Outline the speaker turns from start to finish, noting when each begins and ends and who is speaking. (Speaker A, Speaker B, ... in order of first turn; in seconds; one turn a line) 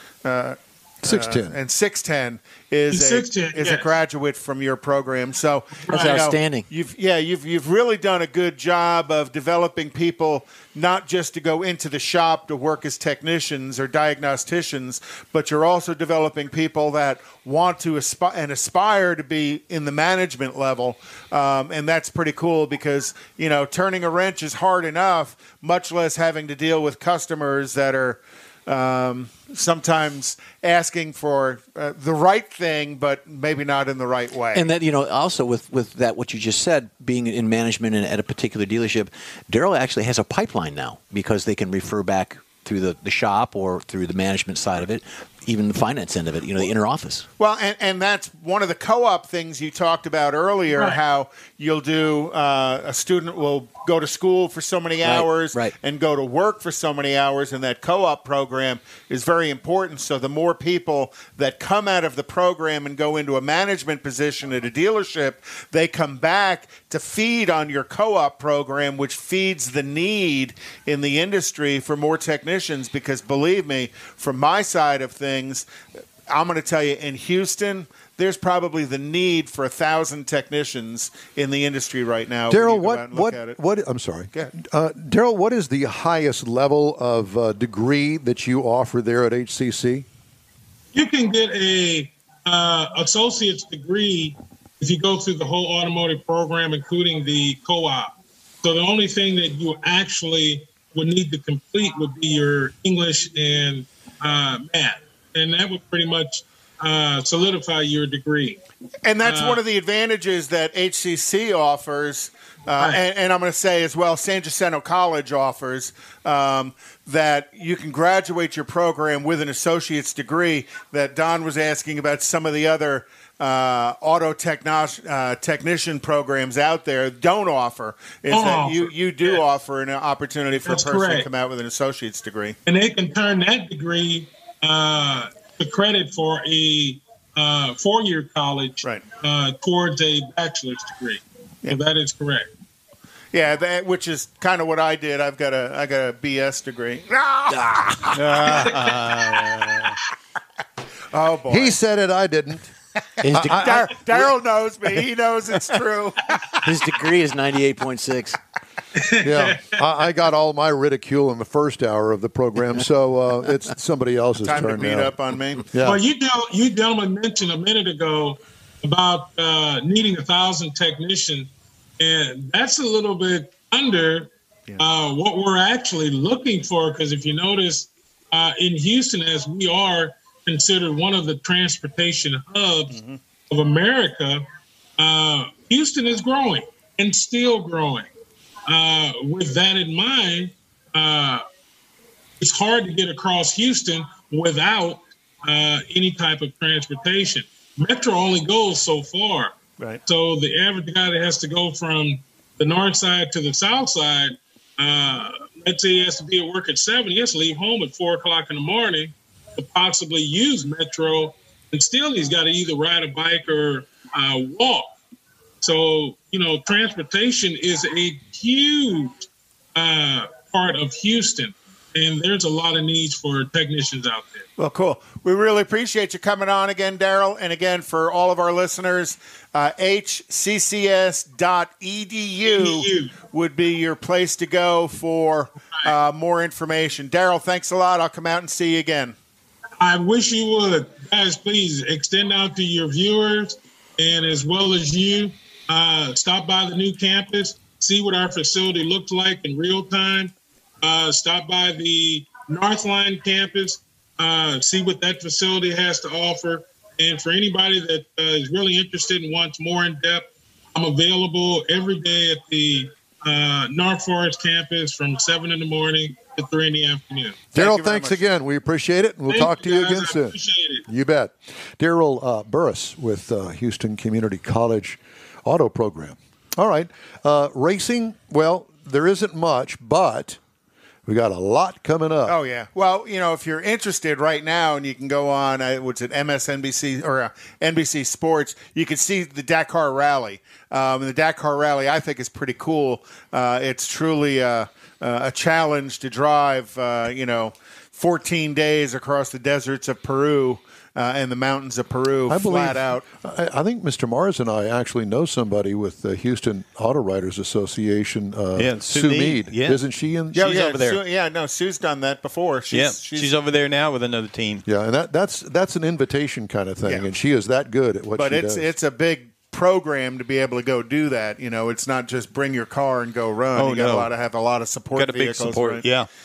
Speaker A: 0.2-34.6
Speaker B: 1.0-1.6
Speaker C: 2.9-3.9
Speaker C: 5.9-6.3
Speaker D: 5.9-6.7
Speaker D: 34.5-47.3
Speaker A: 47.4-75.7
Speaker C: 50.7-51.0
Speaker D: 55.0-55.7
Speaker A: 76.3-83.6
Speaker B: 82.5-90.0
Speaker C: 90.9-98.1
Speaker C: 98.6-108.6
Speaker A: 109.0-132.6
Speaker C: 109.2-109.6
Speaker C: 112.8-113.0
Speaker C: 128.3-129.4
Speaker C: 130.6-131.3
Speaker C: 132.7-142.5
Speaker A: 143.3-149.8
Speaker D: 147.5-148.2
Speaker E: 148.2-149.9
Speaker A: 151.1-151.7
Speaker B: 151.5-152.7
Speaker D: 153.2-153.8
Speaker B: 153.3-154.2
Speaker A: 153.3-156.6
Speaker D: 156.6-158.4
Speaker C: 158.9-159.8
Speaker B: 159.2-165.1
Speaker A: 164.4-165.7
Speaker B: 165.7-166.0
Speaker C: 165.8-183.0
Speaker A: 182.9-183.2
Speaker C: 183.5-184.4
Speaker C: 185.0-188.1
Speaker C: 188.7-191.4
Speaker C: 192.4-199.5
Speaker C: 200.1-214.9
Speaker C: 215.6-224.4
Speaker A: 224.6-239.2
Speaker C: 232.5-233.1
Speaker C: 239.8-267.4
Speaker B: 267.5-280.4
Speaker A: 267.5-268.2
Speaker C: 269.3-270.8
Speaker B: 281.1-282.4
Speaker A: 282.2-303.0
Speaker B: 302.3-310.7
Speaker E: 308.6-309.8
Speaker A: 310.3-313.4
Speaker E: 310.3-311.0
Speaker E: 312.7-314.6
Speaker B: 314.6-318.6
Speaker A: 318.2-325.8
Speaker E: 323.5-324.1
Speaker E: 324.9-326.1